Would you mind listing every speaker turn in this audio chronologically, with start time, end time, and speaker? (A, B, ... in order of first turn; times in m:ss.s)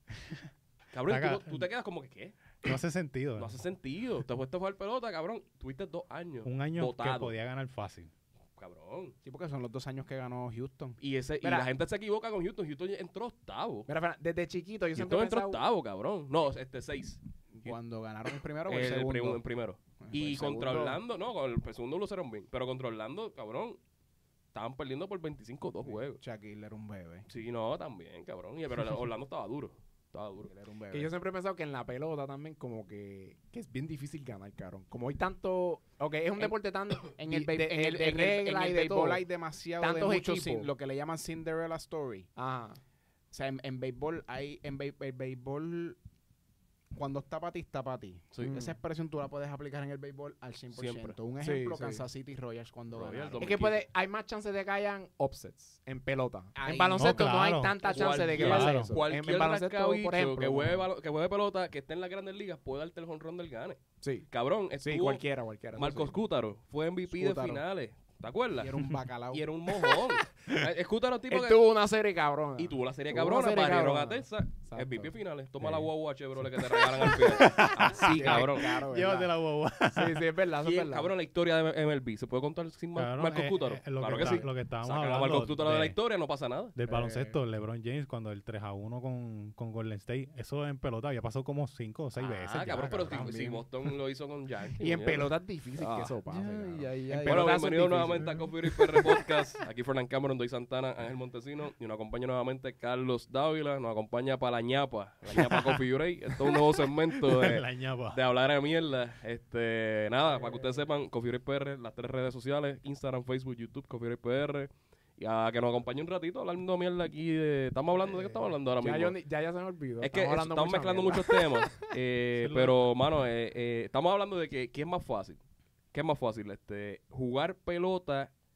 0:00.9-0:02.4 A
0:01.1-0:01.7 B
0:02.6-0:03.6 B
0:03.4-0:07.3 A
0:06.4-0:08.1 B
0:08.6-0:09.1 A
0:09.2-0:11.0 C
0:11.0-0:13.9 A
0:11.4-0:11.7 D
0:13.9-0:15.6 D
0:14.9-0:17.8 A
0:17.5-0:19.4 C
0:18.6-0:23.8 A
0:20.0-0:20.9 C
0:20.3-0:21.0 D
0:24.5-0:26.2 A
0:25.8-0:27.3 C
0:27.3-0:30.5 A
0:30.4-0:31.1 C
0:30.9-0:39.2 D
0:37.2-0:42.3 C
0:39.8-0:40.7 D
0:42.4-0:42.8 D
0:43.3-0:46.0 C
0:46.9-0:53.5 C
0:48.3-0:48.6 A
0:48.4-0:48.8 D
0:50.7-0:51.2 A
0:51.4-0:52.0 D
0:52.9-0:53.8 A
0:53.4-1:00.8 D
0:56.6-0:57.2 C
0:57.0-0:58.9 B
0:57.8-1:05.2 A
0:57.9-0:58.4 C
1:04.0-1:04.3 D
1:04.8-1:06.1 D
1:05.7-1:08.7 A
1:07.1-1:07.6 C
1:08.6-1:09.4 C
1:09.3-1:11.6 A
1:11.3-1:15.1 D
1:12.6-1:18.7 A
1:15.6-1:15.9 B
1:17.0-1:20.2 B
1:17.1-1:18.1 D
1:18.1-1:19.3 C
1:19.9-1:21.1 D
1:20.6-1:26.7 A
1:22.9-1:26.0 B
1:24.1-1:24.4 D
1:26.8-1:33.6 B
1:26.9-1:27.4 D
1:32.2-1:36.2 A
1:34.8-1:38.3 D
1:36.3-1:37.5 C
1:37.0-1:59.2 A
1:38.2-1:39.0 B
1:45.3-1:45.8 B
1:46.4-1:48.2 B
1:50.2-1:50.8 D
1:58.8-2:01.7 D
2:00.0-2:05.4 A
2:02.4-2:02.8 B
2:05.9-2:08.3 A